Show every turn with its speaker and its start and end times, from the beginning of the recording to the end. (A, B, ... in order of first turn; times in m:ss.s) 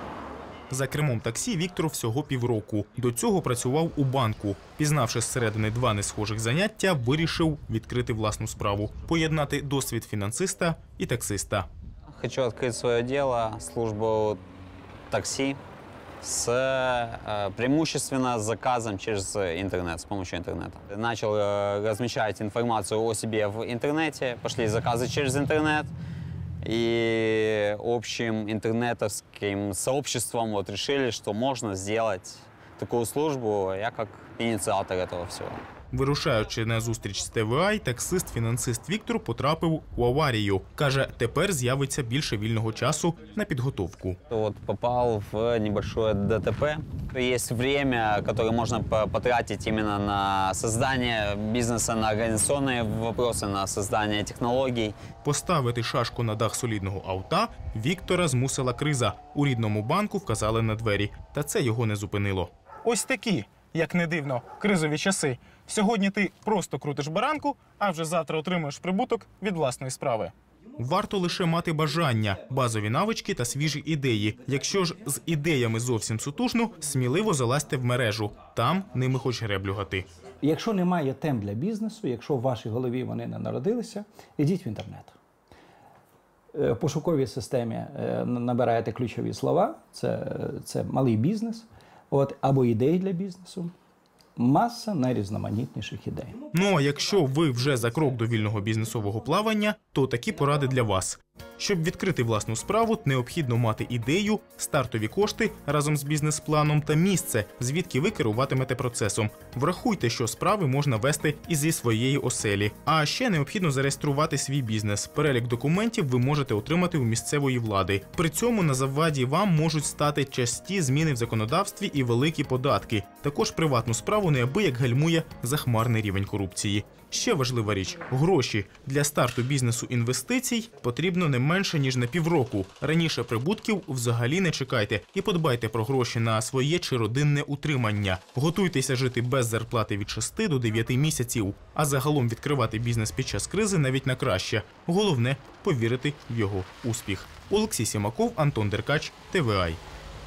0:00.7-0:11.7 A
0:12.1-0:14.4 B
0:15.1-0:15.6 B
0:16.2-0:25.9 B
0:26.6-0:35.6 B
0:35.9-0:44.2 A
0:44.3-0:55.0 B
0:55.2-1:20.1 A
1:20.4-1:25.1 C
1:26.5-1:33.7 C
1:34.4-1:36.4 C
1:36.5-2:29.8 A